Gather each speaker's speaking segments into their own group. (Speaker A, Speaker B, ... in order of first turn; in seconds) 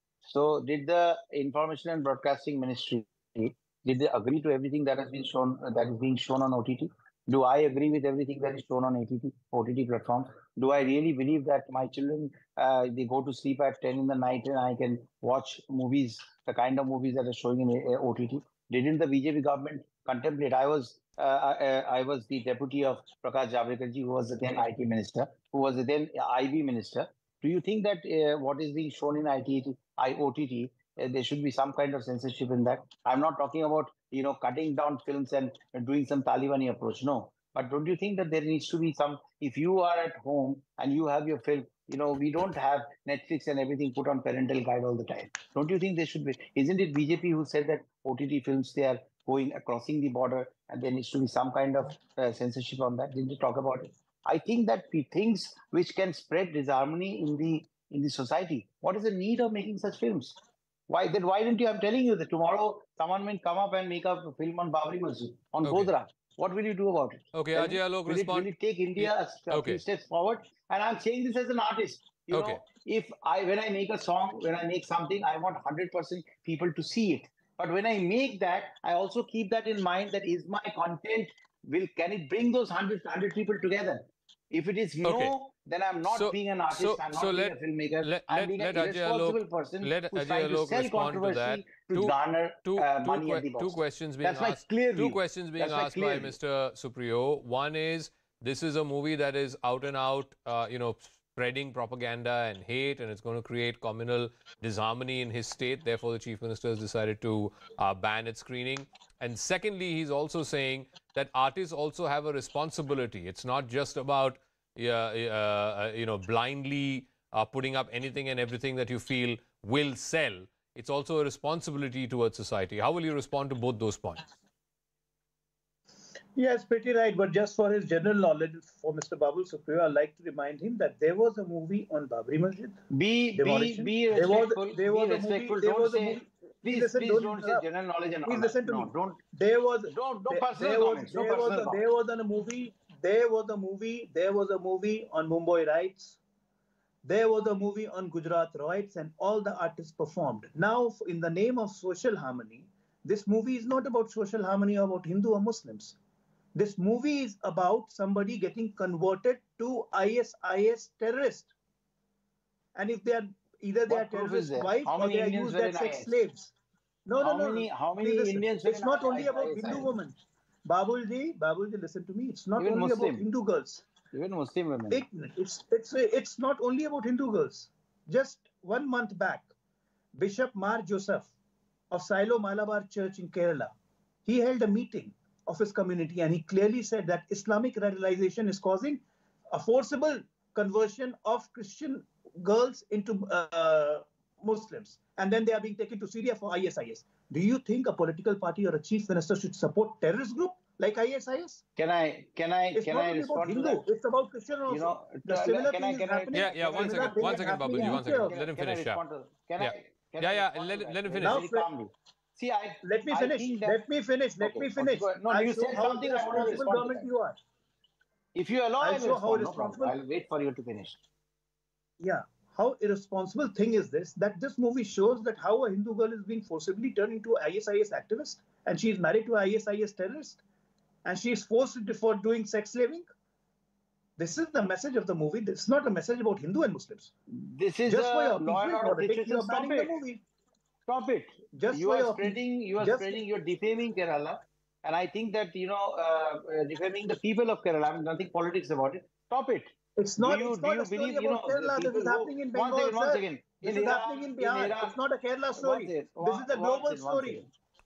Speaker A: 0.2-96.3, 132.9-139.2, 139.9-141.8, 163.9-166.1, 167.2-169.9, 172.6-173.2, 174.1-175.1, 201.8-203.8, 204.7-213.8, 214.4-217.1, 218.3-221.0, 237.4-240.0, 240.9-254.9, 255.6-257.5
Speaker B: 65.6-65.9, 67.3-69.8, 72.3-72.6, 85.0-85.3, 86.1-124.3, 206.3-209.0, 209.6-211.4
Speaker C: 126.3-132.8, 133.3-137.6, 138.2-146.2, 147.0-155.9, 156.6-161.5, 162.8-166.5, 167.1-173.9, 174.9-179.5, 180.2-181.3, 181.9-183.7, 184.2-201.6, 202.7-208.4, 211.2-211.7, 212.8-217.4, 218.8-219.9, 222.0-230.4, 231.1-233.1, 234.2-237.1, 237.9-240.2, 241.5-243.2, 250.0-257.4